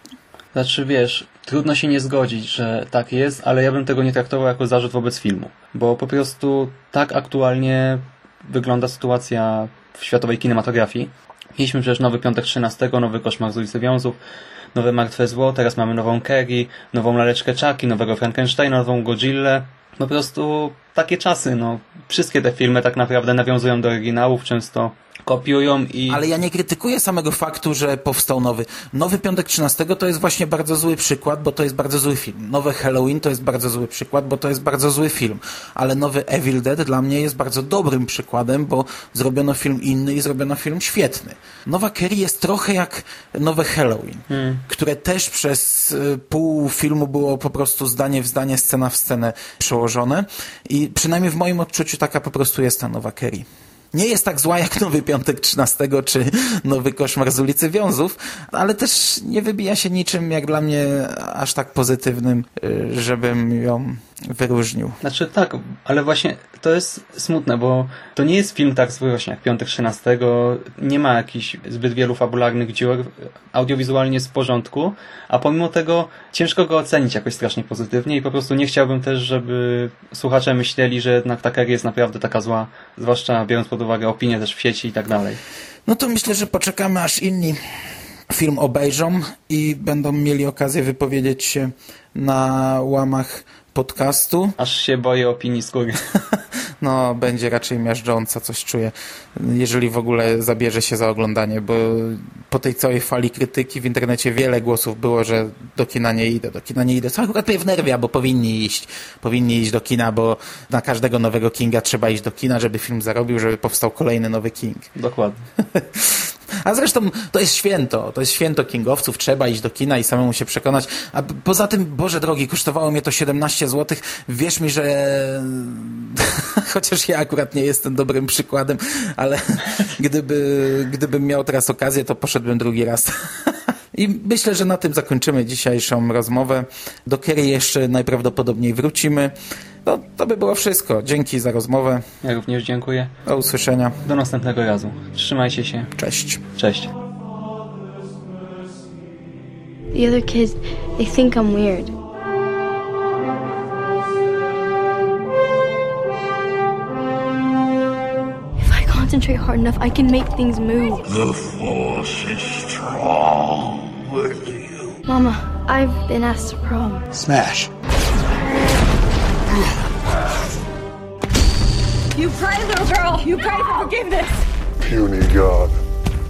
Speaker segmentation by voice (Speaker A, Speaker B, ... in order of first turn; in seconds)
Speaker A: 0.5-14.2, 14.8-26.2, 44.3-44.6, 65.0-85.4, 94.6-96.0, 115.0-115.4, 142.2-143.1, 144.0-145.9, 146.6-146.9
Speaker B: 26.1-65.0, 85.9-87.6, 88.3-94.5, 96.8-114.9, 115.7-142.1, 143.2-144.0, 146.0-146.4
Speaker C: 149.9-151.9, 158.6-161.0, 165.1-167.1
Speaker D: 161.1-165.0, 167.1-167.7, 174.9-175.4
Speaker E: 172.1-174.4